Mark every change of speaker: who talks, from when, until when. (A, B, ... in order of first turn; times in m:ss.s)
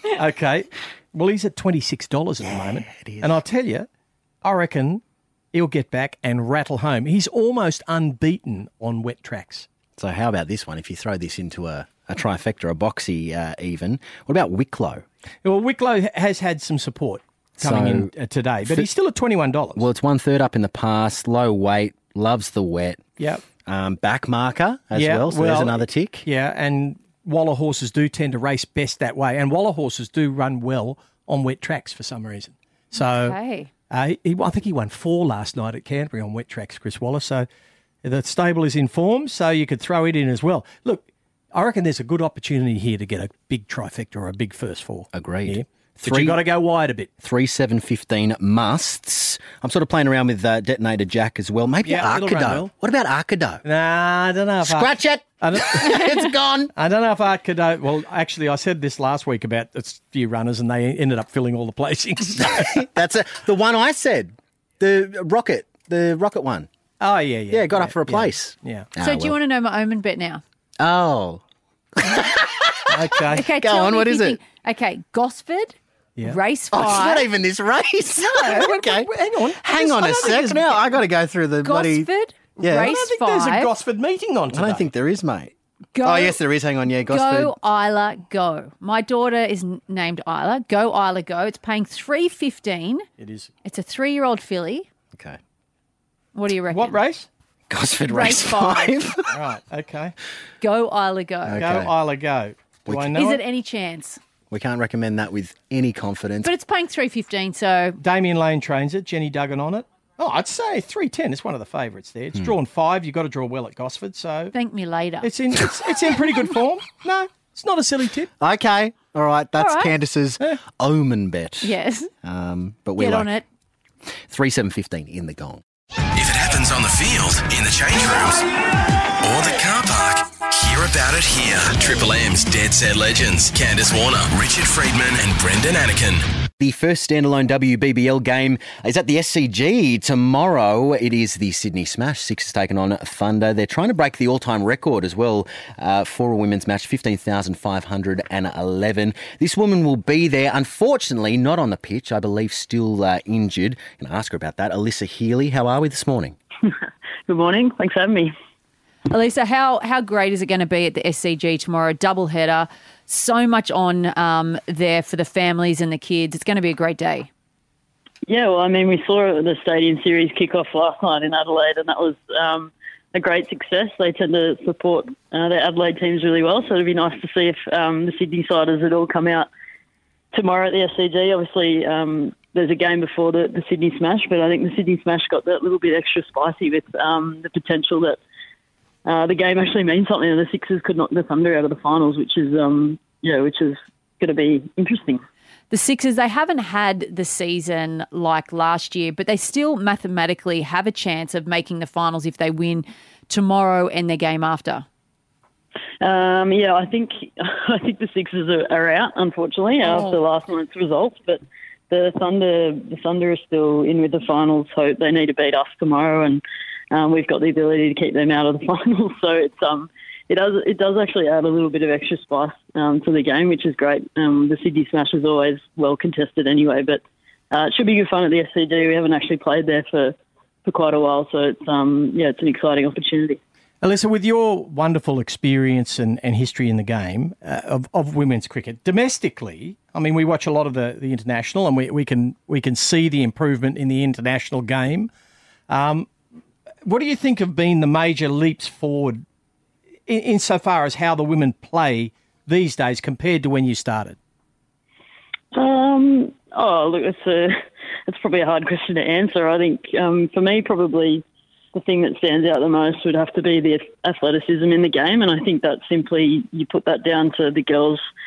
0:00.2-0:03.9 A
0:02.5-0:03.4 B
0:04.4-0:05.0 A
0:05.5-0:09.7 A
0:10.0-0:15.0 B
0:15.4-0:19.8 A
0:17.6-0:18.1 B
0:18.6-0:18.9 B
0:19.8-0:23.0 B
0:23.6-0:26.3 B
0:24.9-0:33.4 A
0:32.9-0:33.7 C
0:33.9-0:37.5 A
0:38.0-0:47.1 A
0:45.1-0:46.4 B
0:47.2-0:53.6 B
0:51.8-0:52.7 A
0:53.6-0:56.2 A
0:54.6-0:56.7 B
0:56.8-1:02.8 A
1:02.4-1:06.7 B
1:07.0-1:08.9 A
1:07.5-1:09.4 B
1:09.0-1:10.4 C
1:10.8-1:11.4 B
1:12.0-1:14.4 B
1:12.9-1:13.5 A
1:13.3-1:17.3 C
1:16.7-1:23.0 B
1:18.2-1:18.7 C
1:18.5-1:20.7 A
1:20.2-1:20.6 C
1:21.6-1:23.7 C
1:22.6-1:24.9 A
1:24.5-1:27.5 B
1:26.0-1:26.4 C
1:27.1-1:33.1 C
1:33.2-1:33.5 A
1:33.6-1:34.9 C
1:35.1-1:35.4 B
1:36.4-1:37.0 C
1:36.7-1:37.3 A
1:37.7-1:39.4 B
1:38.1-1:38.9 C
1:39.3-1:40.1 A
1:40.6-1:41.6 C
1:41.5-1:41.9 B
1:41.6-1:43.4 A
1:42.9-1:43.1 B
1:43.1-1:44.2 C
1:44.5-1:46.5 B
1:46.4-1:48.0 C
1:48.0-1:54.5 A
1:54.5-1:55.3 C
1:55.2-1:58.3 A
1:58.4-2:03.3 B
1:59.6-1:59.9 C
2:01.6-2:02.1 C
2:03.0-2:03.4 C
2:04.3-2:05.6 B
2:06.1-2:08.4 D
2:09.2-2:16.3 D
2:16.6-2:36.4 B
2:37.3-2:38.3 E
2:39.1-2:47.3 C
2:48.3-2:59.5 E
3:00.3-3:08.2 E
3:09.1-3:15.2 E
3:15.7-3:24.9 C
3:26.0-3:47.0 E
3:29.8-3:30.2 C
3:47.5-3:50.1 E
3:50.7-3:53.4 E
3:53.8-4:05.1 A
4:05.7-4:06.1 A
4:06.8-4:09.2 A
4:10.1-4:14.2 A
4:15.5-4:17.5 E
4:18.1-4:28.0 E